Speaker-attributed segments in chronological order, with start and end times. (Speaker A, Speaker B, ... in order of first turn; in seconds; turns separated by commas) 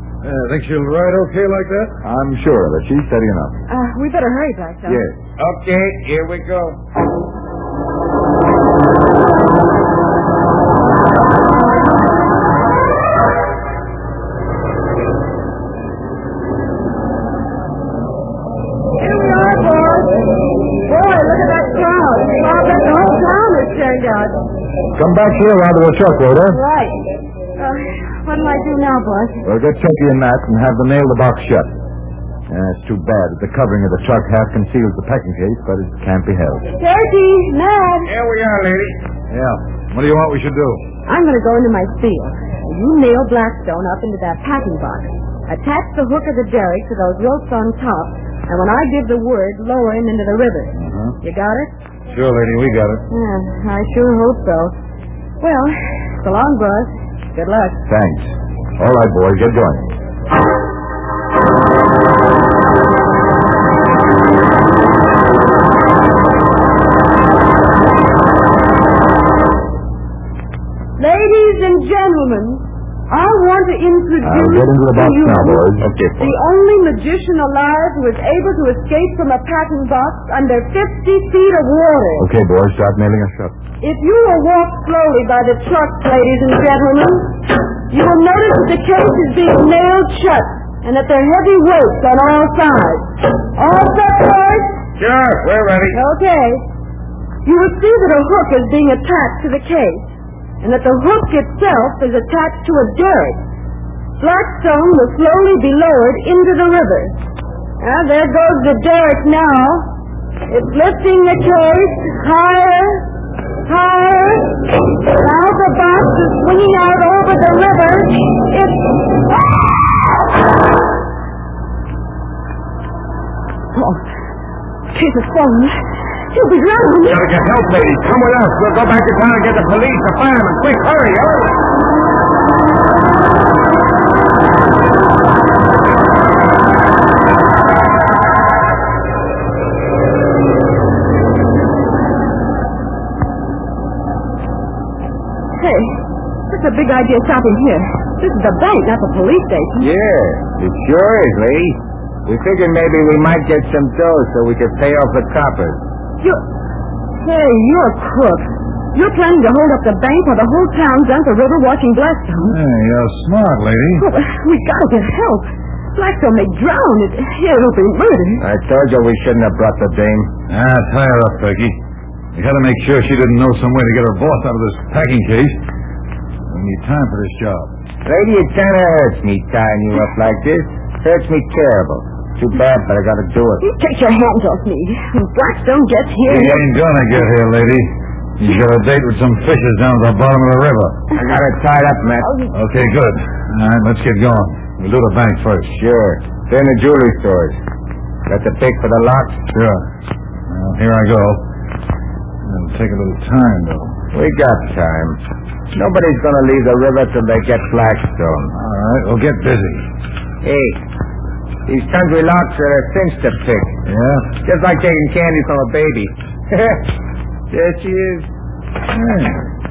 Speaker A: 0.2-2.0, Speaker B: 2.0-3.6, Speaker C: 3.7-5.1, Speaker B: 4.9-5.2, Speaker D: 5.4-6.8, Speaker C: 18.9-24.4, Speaker B: 24.9-26.6, Speaker C: 26.5-29.4, Speaker B: 29.4-31.7, Speaker B: 32.5-36.7, Speaker C: 36.7-38.1, Speaker D: 38.0-39.0, Speaker A: 39.3-40.8, Speaker C: 41.1-51.7, Speaker A: 52.1-53.0, Speaker C: 53.1-54.7, Speaker C: 55.4-57.8, Speaker B: 57.9-60.0, Speaker C: 71.0-82.3, Speaker B: 74.2-76.3, Speaker B: 82.2-83.6, Speaker C: 83.8-94.8, Speaker D: 95.0-96.0, Speaker C: 95.9-96.7, Speaker C: 97.4-100.1, Speaker C: 100.6-103.4, Speaker C: 104.2-107.2, Speaker C: 107.8-120.0, Speaker C: 123.7-124.0, Speaker C: 124.9-127.3, Speaker D: 127.1-131.6, Speaker C: 145.6-149.9, Speaker D: 149.8-155.8, Speaker C: 157.2-162.6, Speaker A: 162.4-164.0, Speaker C: 164.0-168.5, Speaker D: 168.4-170.3, Speaker A: 170.5-171.8, Speaker A: 172.3-175.6, Speaker A: 176.5-177.7, Speaker D: 178.1-183.6, Speaker C: 183.6-186.6, Speaker A: 186.3-191.1, Speaker D: 191.1-192.3, Speaker A: 192.5-195.7, Speaker D: 195.7-197.6, Speaker D: 198.3-199.4, Speaker A: 199.5-199.8, Speaker A: 200.5-201.4, Speaker A: 202.4-204.0, Speaker D: 204.1-205.2, Speaker D: 205.7-208.5, Speaker A: 208.5-209.8, Speaker D: 210.4-210.8, Speaker D: 211.7-213.8, Speaker A: 213.8-214.3, Speaker D: 214.4-216.9, Speaker D: 217.5-218.3, Speaker A: 218.9-219.5